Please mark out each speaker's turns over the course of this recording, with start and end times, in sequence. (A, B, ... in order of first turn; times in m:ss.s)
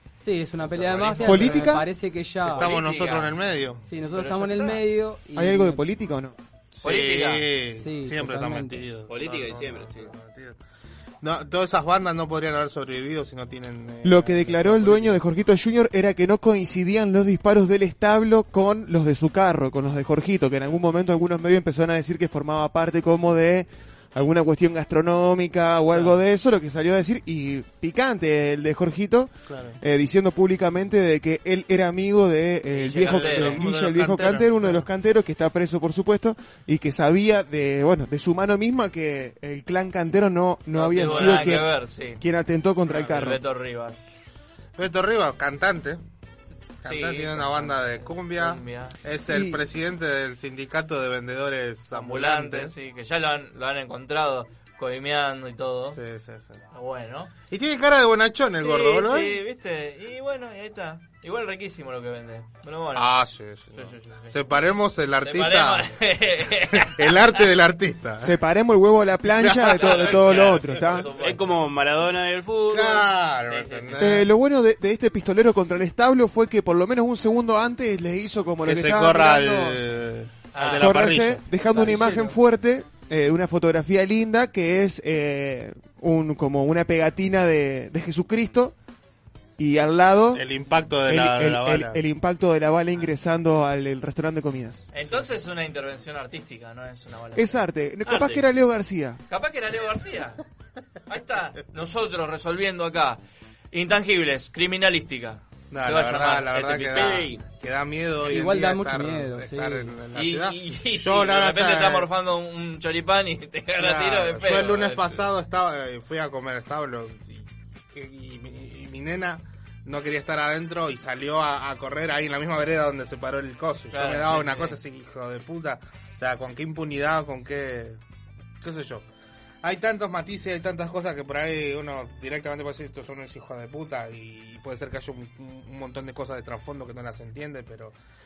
0:00.2-0:02.7 A
0:00.8-0:01.7 B
0:01.2-0:01.9 C
0:02.5-0:03.8 D
0:02.5-0:03.4 B
0:03.9-0:05.8 A
0:04.1-0:04.8 B
0:05.4-0:06.3 C
0:06.7-0:10.6 D
0:06.8-0:07.5 B
0:07.8-0:08.8 A
0:09.1-0:10.1 E
0:11.2-0:15.2 D
0:14.0-0:43.4 C
0:29.5-0:29.8 D
0:32.7-0:33.6 B
0:33.0-0:34.9 D
0:40.7-0:42.2 B
0:41.0-0:41.3 D
0:42.9-0:44.0 B
0:44.8-0:46.0 D
0:46.8-0:52.7 D
0:46.8-0:49.0 B
0:49.3-0:49.6 C
0:51.9-0:56.0 B
0:55.9-0:56.6 D
0:56.7-0:57.3 B
0:57.5-0:59.4 D
0:58.6-1:03.1 B
1:03.0-1:05.9 D
1:03.7-1:04.6 B
1:05.2-1:07.4 B
1:06.7-1:08.3 D
1:08.2-1:11.1 C
1:09.4-1:10.7 D
1:09.6-1:11.5 B
1:11.2-1:13.1 E
1:12.7-1:14.3 D
1:13.5-1:14.2 B
1:14.0-1:19.8 C
1:18.7-1:21.4 D
1:20.5-1:22.4 B
1:20.8-1:28.7 C
1:29.6-1:30.4 C
1:30.3-1:32.0 D
1:31.1-1:34.9 C
1:34.9-1:38.4 B
1:37.4-1:39.2 C
1:39.3-1:40.4 B
1:41.1-1:43.2 B
1:43.7-1:47.3 B
1:45.7-1:52.1 D
1:46.8-1:47.4 E
1:48.3-1:49.9 A
1:50.2-1:55.2 B
1:53.8-2:08.0 D
2:03.9-2:04.8 B
2:08.6-2:09.1 D
2:09.6-2:18.0 D